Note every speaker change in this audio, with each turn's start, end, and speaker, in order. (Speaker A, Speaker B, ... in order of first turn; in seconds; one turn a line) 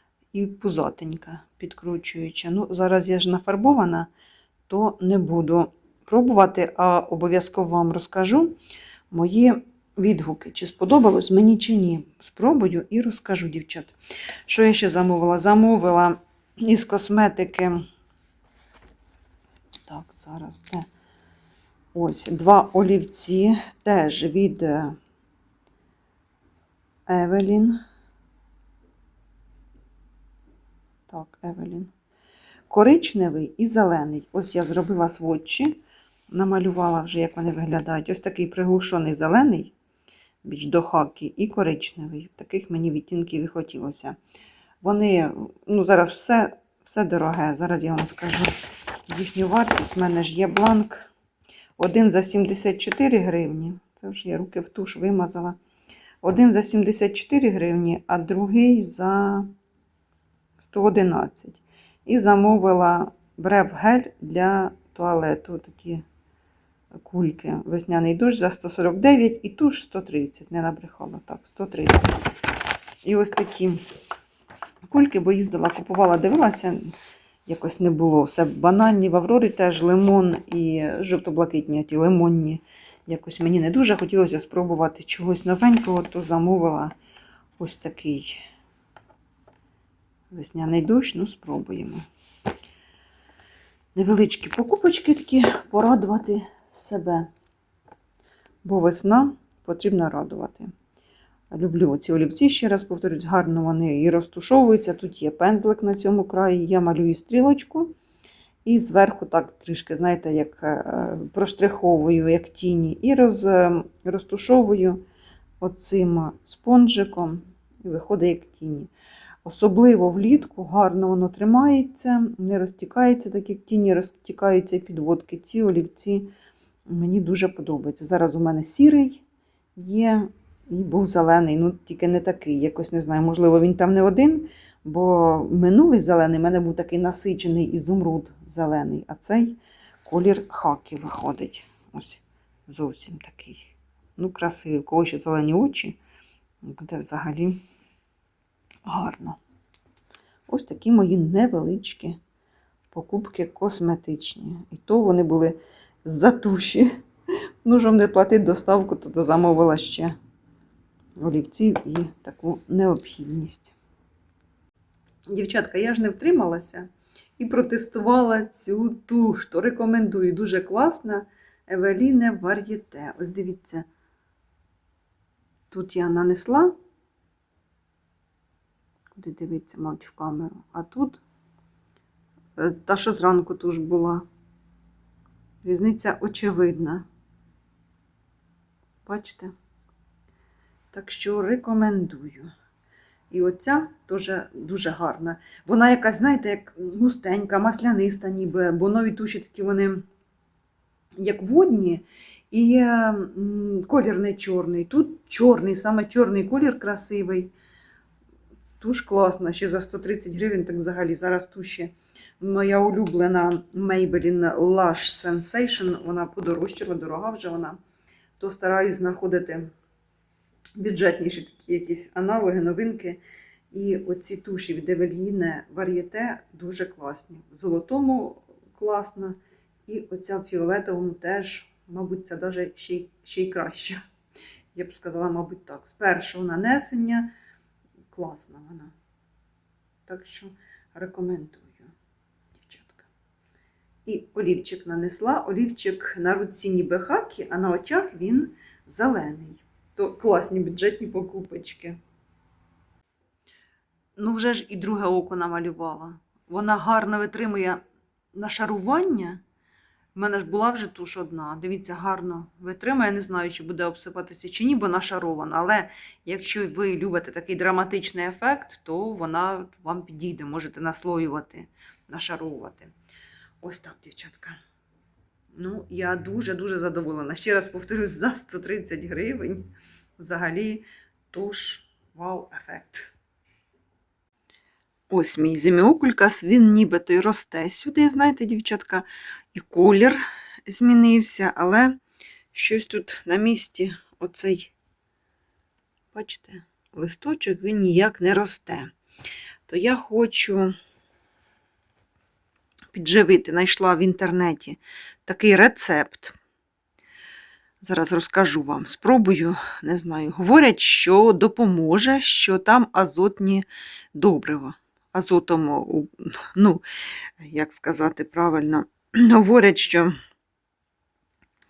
Speaker A: 0.3-4.1
Speaker A: 4.7-8.6
Speaker A: 9.1-13.9
Speaker A: 14.5-17.8
Speaker A: 19.9-20.9
Speaker A: 21.9-25.0
Speaker A: 27.1-27.8
Speaker A: 31.1-31.9
Speaker A: 32.7-39.7
Speaker A: 40.4-44.2
Speaker A: 44.8-48.6
Speaker A: 49.1-51.1
Speaker A: 51.8-55.6
Speaker A: 56.2-59.5
Speaker A: 60.6-66.0
Speaker A: 67.0-72.1
Speaker A: 73.0-73.8
Speaker A: 74.9-76.9
Speaker A: 77.5-87.0
Speaker A: 87.6-88.4
Speaker A: 90.3-92.0
Speaker A: 94.0-97.3
Speaker A: 98.6-100.7
Speaker A: 101.5-107.9
Speaker A: 108.7-115.0
Speaker A: 115.6-118.9
Speaker A: 119.5-126.3
Speaker A: 126.9-129.2
Speaker A: 129.8-146.0
Speaker A: 146.6-147.6
Speaker A: 148.9-149.4
Speaker A: 150.5-152.2
Speaker A: 152.9-156.9
Speaker A: 157.6-160.2
Speaker A: 161.2-163.8
Speaker A: 165.3-173.9
Speaker A: 175.7-176.7
Speaker A: 179.2-181.2
Speaker A: 182.6-184.2
Speaker A: 185.6-187.1
Speaker A: 189.1-189.5
Speaker A: 190.9-192.5
Speaker A: 193.3-200.0
Speaker A: 201.2-207.5
Speaker A: 208.8-217.8
Speaker A: 218.4-219.7
Speaker A: 220.8-223.2
Speaker A: 223.7-234.0
Speaker A: 234.7-237.3
Speaker A: 238.1-238.9
Speaker A: 240.1-241.9
Speaker A: 242.6-243.1
Speaker A: 244.1-252.0
Speaker A: 254.2-257.8
Speaker A: 258.4-259.4
Speaker A: 260.1-272.9
Speaker A: 273.6-274.6
Speaker A: 275.6-283.1
Speaker A: 285.1-292.0
Speaker A: 292.5-294.7
Speaker A: 296.1-298.9
Speaker A: 299.7-300.7
Speaker A: 302.9-306.4
Speaker A: 307.8-316.8
Speaker A: 317.4-320.1